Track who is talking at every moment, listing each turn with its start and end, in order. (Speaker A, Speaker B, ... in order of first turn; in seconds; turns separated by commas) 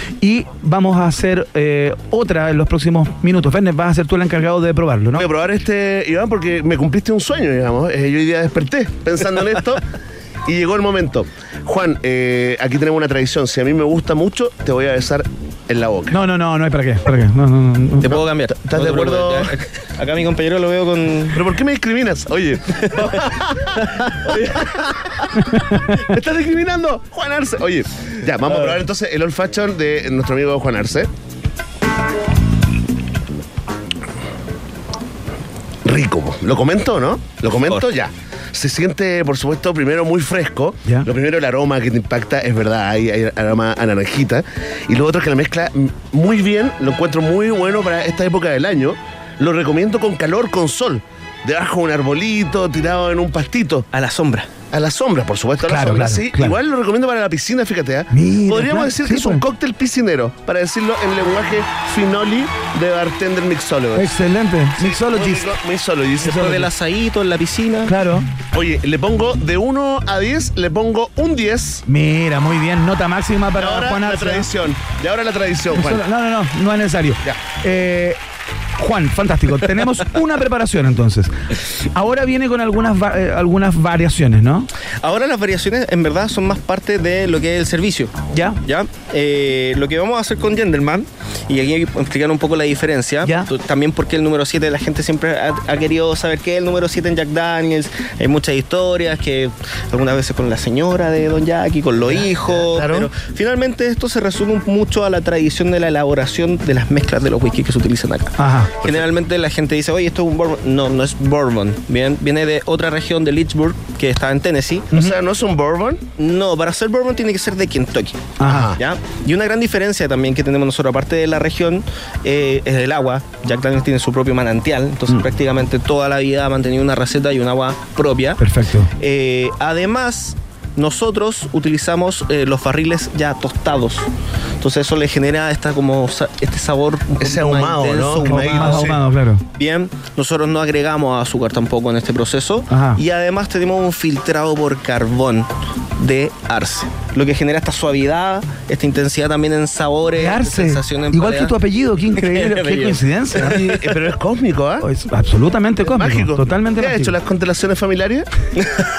Speaker A: 0.2-5.2, Speaker B: 5.2-9.8, Speaker B: 10.4-16.1, Speaker A: 16.1-18.1, Speaker C: 18.0-21.4, Speaker B: 18.1-19.5, Speaker B: 21.3-25.2, Speaker C: 22.9-23.2, Speaker C: 23.8-24.6, Speaker A: 25.5-26.0, Speaker B: 26.0-31.1, Speaker C: 28.4-28.8, Speaker B: 35.8-53.9, Speaker C: 53.9-54.5, Speaker B: 54.7-64.2, Speaker A: 55.7-56.6, Speaker A: 58.1-59.4, Speaker A: 64.0-65.5, Speaker B: 64.8-66.7, Speaker C: 66.2-67.9, Speaker A: 66.2-66.6, Speaker A: 67.8-68.3, Speaker B: 68.5-71.8, Speaker A: 71.9-74.5, Speaker B: 73.6-76.0, Speaker A: 75.7-78.2, Speaker A: 78.8-81.3, Speaker A: 81.9-84.7, Speaker C: 85.0-88.1, Speaker A: 88.3-88.6, Speaker C: 88.6-114.9, Speaker A: 93.2-93.5, Speaker B: 102.1-103.1, Speaker A: 108.4-108.7, Speaker B: 108.8-109.1, Speaker B: 114.9-116.0, Speaker C: 116.2-128.4, Speaker A: 118.4-118.7, Speaker B: 118.4-118.8, Speaker A: 128.4-128.9, Speaker C: 129.0-134.1, Speaker C: 134.6-138.9, Speaker B: 137.2-139.0, Speaker A: 138.3-139.4, Speaker C: 139.6-151.5, Speaker A: 142.7-143.0, Speaker A: 150.2-153.8, Speaker C: 152.2-153.7, Speaker B: 153.4-154.9, Speaker A: 154.8-157.1, Speaker B: 155.8-158.3, Speaker C: 158.6-158.8